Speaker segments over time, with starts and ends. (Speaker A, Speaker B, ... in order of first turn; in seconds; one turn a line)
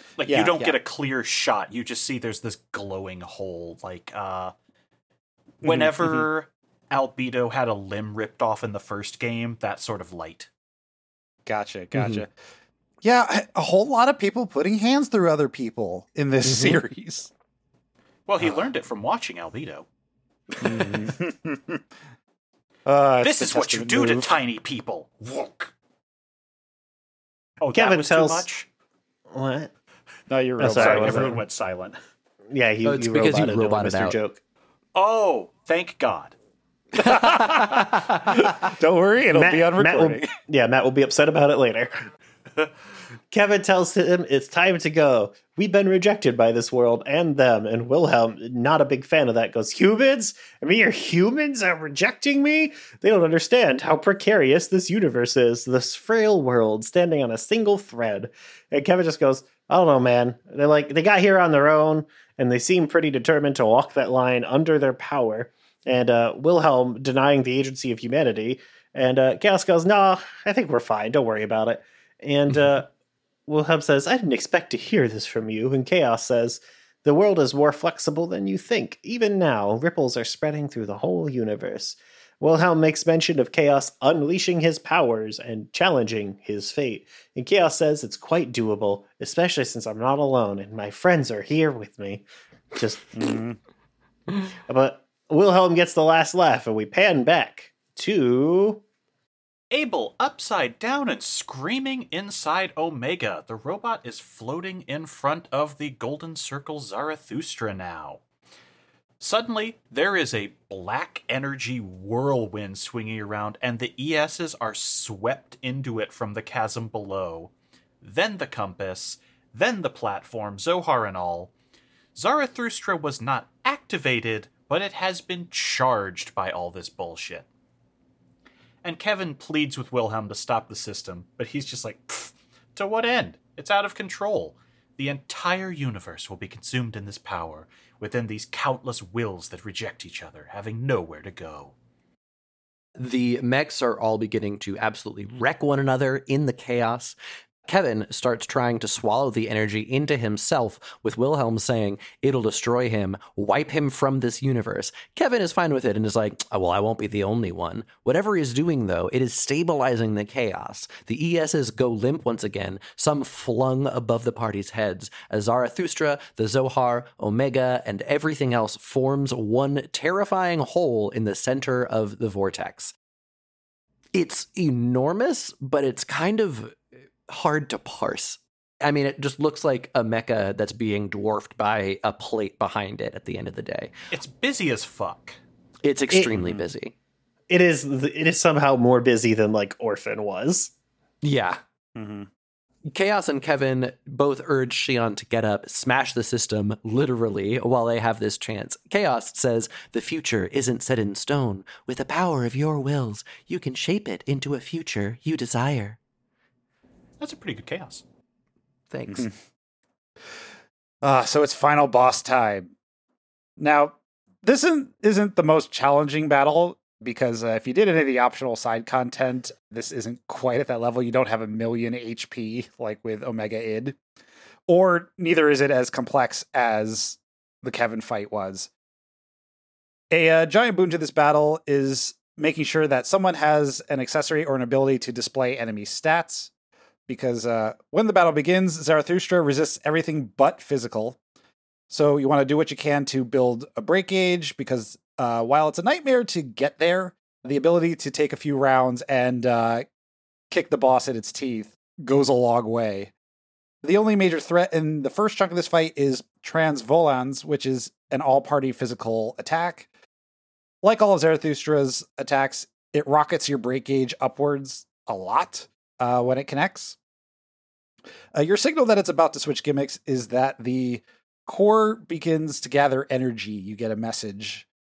Speaker A: 0.2-4.5
Speaker B: 0.3-0.7
Speaker A: 5.6-10.5
Speaker B: 5.6-6.3
Speaker B: 11.4-12.3
Speaker B: 13.0-17.3
Speaker A: 18.3-19.9
Speaker B: 20.6-21.8
Speaker B: 22.9-24.4
Speaker A: 23.2-25.7
Speaker A: 27.6-28.7
Speaker C: 27.7-28.4
Speaker C: 29.3-29.7
Speaker B: 30.3-31.4
Speaker C: 30.6-31.4
Speaker A: 30.7-32.0
Speaker C: 32.5-34.4
Speaker D: 32.8-34.2
Speaker A: 35.0-36.4
Speaker D: 37.0-38.5
Speaker B: 37.0-40.3
Speaker C: 39.3-42.0
Speaker C: 43.3-72.9
Speaker C: 73.5-93.1
Speaker B: 93.1-93.6
Speaker C: 94.7-98.8
Speaker A: 99.7-108.2
Speaker A: 109.2-117.5
Speaker A: 118.0-121.5
Speaker A: 122.1-127.5
Speaker A: 128.8-141.7
Speaker D: 142.9-147.2
Speaker D: 147.7-172.9
Speaker D: 174.1-183.9
Speaker A: 184.1-185.4
Speaker D: 185.8-186.9
Speaker B: 186.4-186.6
Speaker C: 187.5-190.7
Speaker D: 191.2-191.6
Speaker B: 191.9-192.3
Speaker D: 192.9-206.0
Speaker A: 207.2-208.0
Speaker D: 208.9-209.3
Speaker B: 211.0-212.7
Speaker B: 213.6-224.0
Speaker B: 224.7-228.7
Speaker B: 230.1-236.5
Speaker B: 237.1-241.2
Speaker B: 241.9-249.9
Speaker B: 250.5-253.1
Speaker B: 253.8-259.9
Speaker B: 260.8-267.0
Speaker B: 268.3-274.7